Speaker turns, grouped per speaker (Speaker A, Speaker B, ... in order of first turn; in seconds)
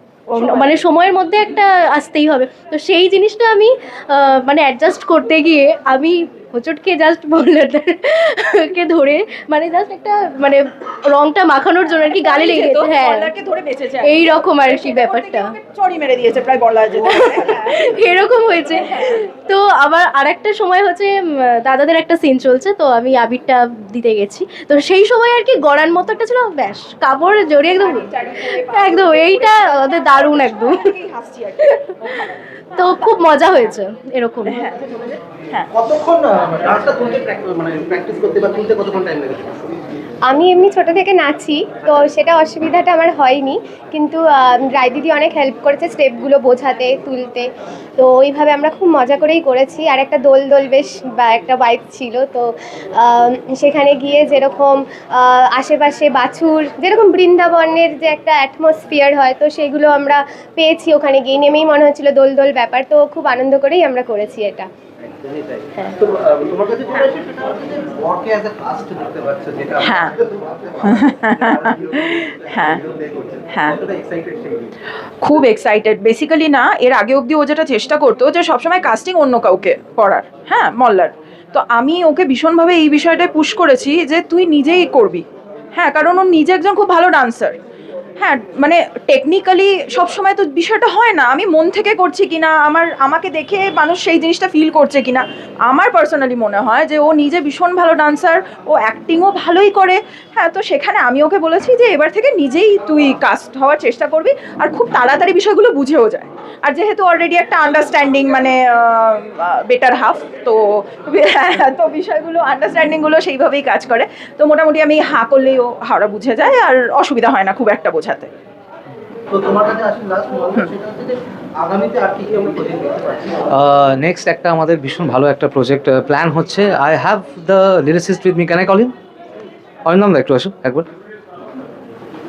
Speaker A: 0.3-13.3, 14.0-15.6, 17.0-30.9, 32.8-34.7
Speaker B: 12.1-19.2, 27.6-33.2, 69.8-70.2, 70.8-72.8, 73.5-73.8, 75.2-87.6, 88.2-118.3
Speaker C: 34.7-35.2, 35.7-39.7, 65.1-74.7, 119.3-123.4
Speaker D: 40.3-64.7
Speaker E: 123.5-128.9, 129.9-130.9